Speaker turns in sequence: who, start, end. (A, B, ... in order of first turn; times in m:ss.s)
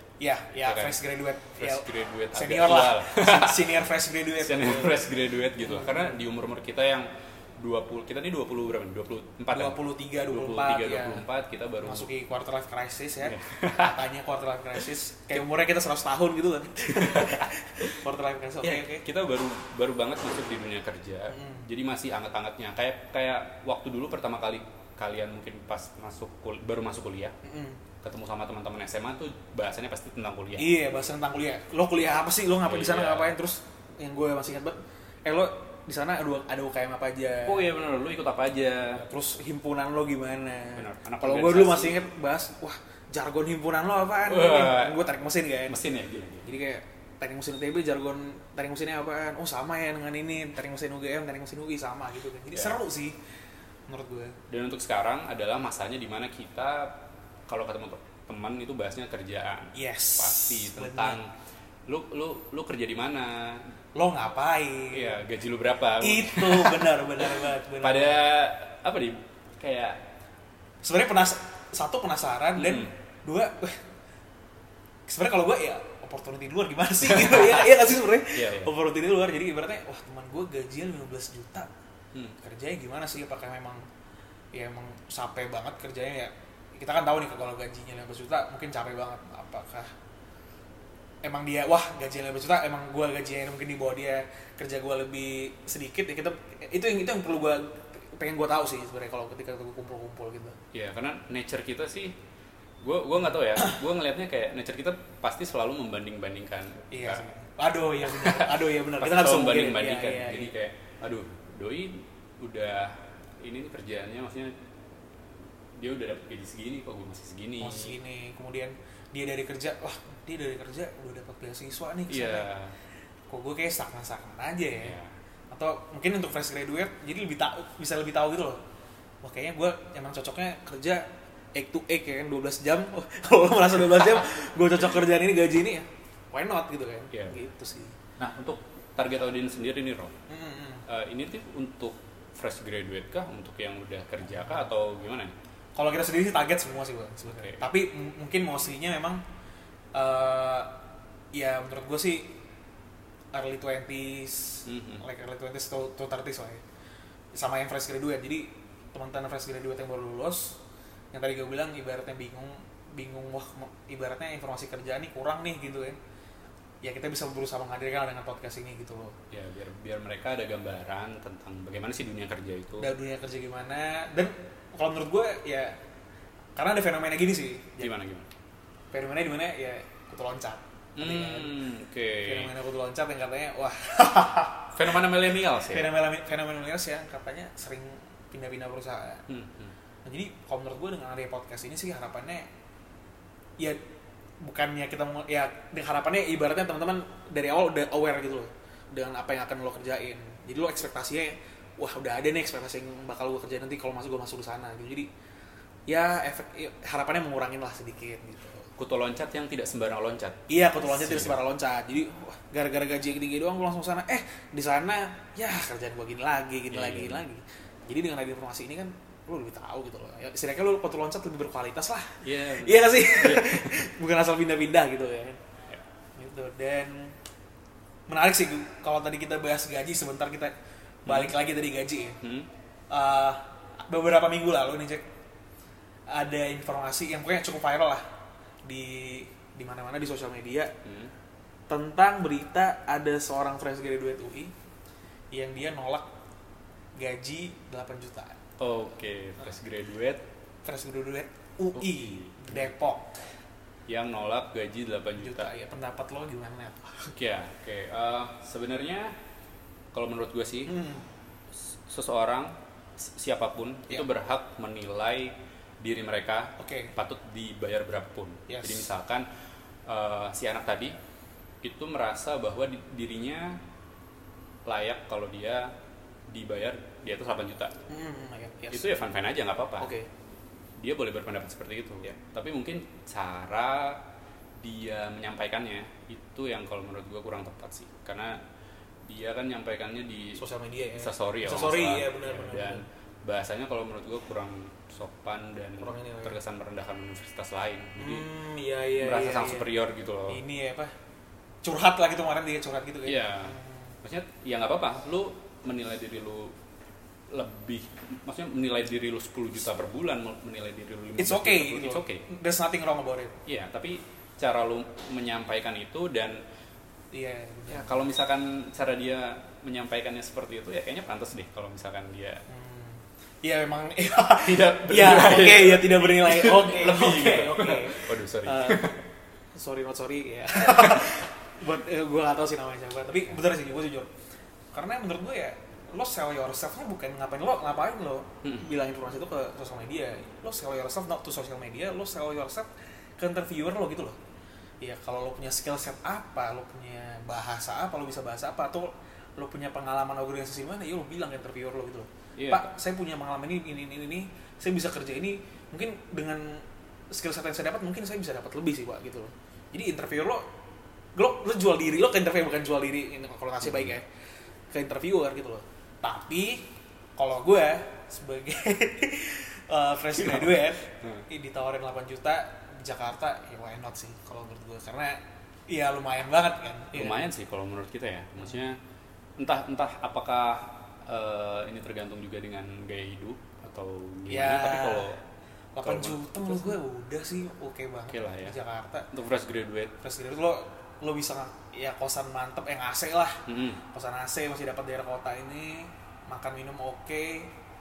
0:00.2-0:05.1 A
0:00.6-0:01.0 B
0:01.6-0:03.8 B
0:04.4-0:12.1 B
0:05.6-0:06.2 A
0:09.5-0:11.2 A
0:11.8-0:19.0 A
0:13.2-0:14.0 B
0:16.9-0:17.9 B
0:18.6-0:27.4 B
0:21.3-0:21.7 A
0:27.4-0:27.8 A
0:28.0-0:30.7 B
0:30.6-0:37.6 A
0:32.7-0:33.4 B
0:37.4-0:39.1 B
0:39.0-0:45.8 A
0:40.7-0:42.0 B
0:44.2-0:45.1 B
0:45.7-0:46.5 B
0:46.4-0:53.2 A
0:52.5-0:52.8 B
0:53.9-0:54.4 A
0:54.5-1:01.3 B
0:59.7-1:01.2 A
1:01.8-1:03.7 B
1:03.9-1:05.2 A
1:04.9-1:10.0 B
1:06.0-1:08.2 A
1:10.8-1:13.9 A
1:12.6-1:12.9 B
1:15.1-1:21.7 A
1:17.0-1:18.7 B
1:22.4-1:23.8 A
1:24.5-1:29.9 A
1:31.2-1:40.6 A
1:40.7-1:42.2 B
1:42.8-1:47.3 B
1:46.9-1:50.5 A
1:48.0-1:54.5 B
1:55.8-1:57.9 B
1:57.6-2:02.5 A
2:02.1-2:02.8 B
2:03.3-2:05.0 A
2:04.8-2:05.1 B
2:05.5-2:08.6 A
2:09.2-2:18.0 A
2:17.1-2:17.4 B
2:18.2-2:20.1 B
2:20.3-2:20.8 A
2:20.8-2:25.3 B
2:25.8-2:29.2 A
2:27.3-2:27.6 B
2:29.9-2:30.7 A
2:31.3-2:32.4 A
2:33.3-2:36.6 A
2:34.6-2:35.0 B
2:37.3-2:40.6 A
2:41.1-2:46.0 A
2:46.8-2:49.2 A
2:49.3-2:52.9 B
2:52.8-2:55.8 A
2:56.6-2:57.9 A
2:57.8-2:58.3 B
2:58.9-3:01.6 A
3:01.0-3:02.5 B
3:02.2-3:05.0 A
3:04.7-3:05.9 B
3:05.6-3:09.2 A
3:09.3-3:09.7 B
3:10.0-3:12.5 A
3:14.4-3:25.1 A
3:25.9-3:28.7 A
3:28.8-3:31.4 B
3:30.5-3:45.4 A
3:36.7-3:37.2 B
3:42.2-3:43.9 B
3:46.2-3:47.2 A
3:48.1-3:50.5 A
3:51.0-3:51.4 B
3:51.0-3:52.2 A
3:52.2-3:52.5 B
3:52.9-3:55.1 A
3:56.1-3:58.0 A
3:58.6-4:00.7 A
4:00.8-4:01.1 B
4:01.7-4:04.5 A
4:05.3-4:06.1 A
4:07.0-4:08.4 A
4:08.6-4:10.2 B
4:10.6-4:13.2 A
4:11.8-4:12.7 B
4:13.9-4:15.5 B
4:15.2-4:17.1 A
4:17.1-4:19.1 B
4:19.9-4:20.8 B
4:20.6-4:21.0 A
4:21.5-4:29.3 B
4:26.6-4:26.9 A
4:28.5-4:28.9 A
4:29.8-4:30.9 B
4:31.6-4:33.6 B
4:34.6-4:35.7 B
4:36.3-4:37.7 B
4:37.9-4:38.9 A
4:38.7-4:39.9 B
4:39.8-4:40.1 A
4:40.8-4:44.0 B
4:44.6-4:48.4 B
4:49.0-4:50.4 B
4:50.4-4:52.8 A
4:51.0-4:58.2 B
4:55.8-4:56.4 A
4:58.0-4:59.7 A
4:59.0-5:00.4 B
5:00.3-5:00.9 A
5:01.6-5:03.8 A
5:03.0-5:06.6 B
5:07.3-5:12.2 B
5:11.2-5:13.4 A
5:13.4-5:16.4 B
5:17.1-5:18.1 A
5:17.7-5:22.4 B
5:22.5-5:29.0 A
5:24.4-5:29.0 B
5:29.5-5:34.1 A
5:34.7-5:44.2 A
5:44.8-6:00.4 A
5:52.4-5:52.6 B
6:01.1-6:04.1 A
6:04.7-6:17.3 A
6:10.1-6:11.2 B
6:16.9-6:18.8 B
6:19.4-6:25.2 B
6:24.3-6:25.2 A
6:25.7-6:29.1 A
6:25.8-6:26.8 B
6:28.1-6:28.6 B
6:29.1-6:29.9 B
6:30.0-6:37.5 A
6:33.5-6:33.8 B